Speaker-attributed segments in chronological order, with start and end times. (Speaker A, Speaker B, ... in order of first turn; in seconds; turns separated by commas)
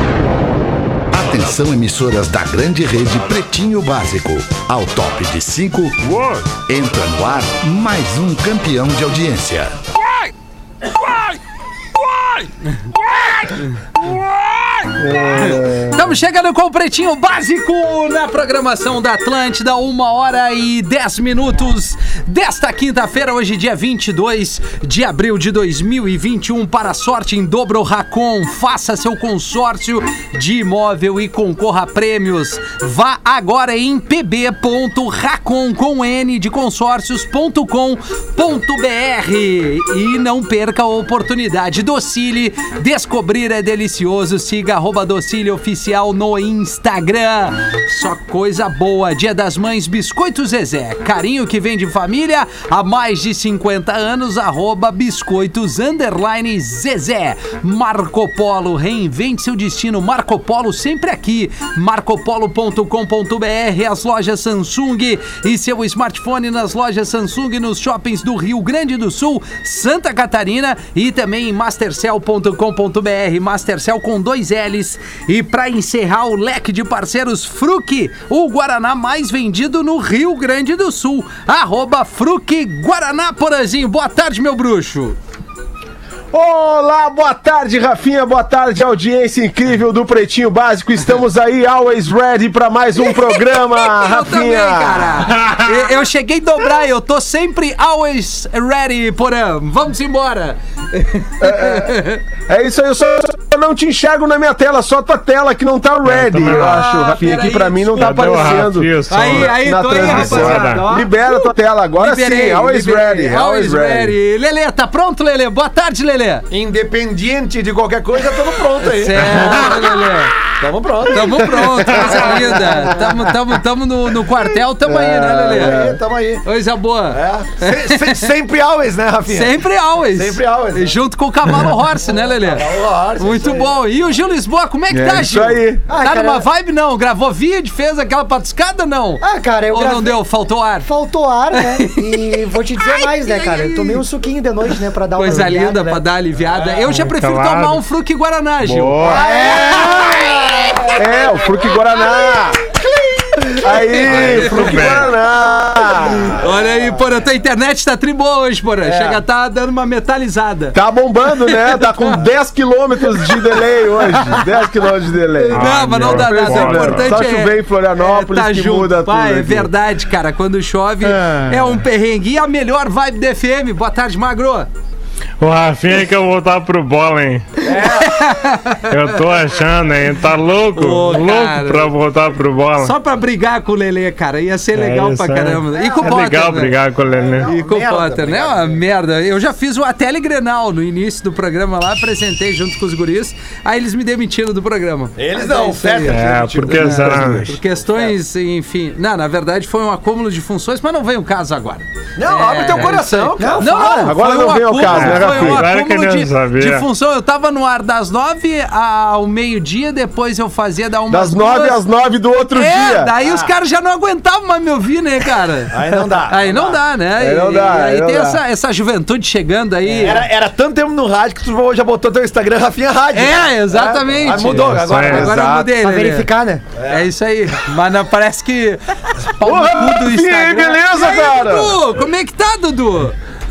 Speaker A: 1.1-9.8, Speaker B: 15.0-16.1, Speaker C: 15.4-85.2, Speaker B: 86.3-95.3, Speaker C: 93.0-102.2, Speaker B: 101.4-114.2, Speaker D: 106.1-110.9, Speaker C: 106.4-116.5, Speaker E: 116.5-119.9, Speaker C: 118.8-120.3, Speaker E: 120.6-122.5, Speaker C: 121.1-125.8, Speaker B: 121.8-122.1, Speaker B: 122.7-123.2, Speaker B: 124.8-126.0, Speaker E: 125.2-126.5, Speaker C: 126.4-128.3, Speaker E: 127.1-131.0, Speaker C: 129.3-140.9, Speaker E: 132.0-133.8, Speaker B: 134.9-135.8, Speaker F: 135.9-136.4, Speaker F: 139.2-140.2, Speaker F: 140.8-146.0, Speaker C: 141.5-144.0, Speaker C: 145.2-150.9, Speaker D: 146.8-147.8, Speaker B: 148.6-149.2, Speaker F: 149.0-150.1, Speaker E: 150.1-150.9, Speaker B: 150.9-152.6, Speaker C: 153.2-155.0, Speaker B: 153.6-156.4, Speaker D: 154.1-155.1, Speaker C: 156.3-162.1, Speaker B: 158.8-159.2, Speaker B: 160.7-169.7, Speaker C: 164.2-164.4, Speaker C: 165.4-174.7, Speaker D: 165.5-167.2, Speaker B: 171.1-171.8, Speaker D: 175.4-177.6, Speaker E: 177.6-178.2, Speaker C: 177.7-179.0, Speaker D: 178.8-182.9, Speaker C: 180.8-181.9, Speaker C: 182.8-186.8, Speaker D: 184.7-187.5, Speaker E: 187.2-188.8, Speaker C: 187.4-211.8, Speaker E: 195.2-198.1, Speaker D: 196.1-197.5, Speaker B: 197.0-197.5, Speaker E: 202.2-204.1, Speaker F: 203.4-204.1, Speaker B: 203.9-205.7, Speaker D: 204.8-206.9, Speaker B: 211.1-213.1, Speaker C: 212.5-220.3, Speaker E: 213.2-213.5, Speaker E: 215.7-216.8, Speaker B: 217.2-218.4, Speaker E: 219.8-225.4, Speaker C: 223.1-226.3, Speaker D: 224.7-225.2, Speaker B: 225.1-225.7, Speaker F: 225.8-226.7, Speaker E: 226.8-227.1, Speaker C: 226.8-233.2, Speaker B: 229.4-231.8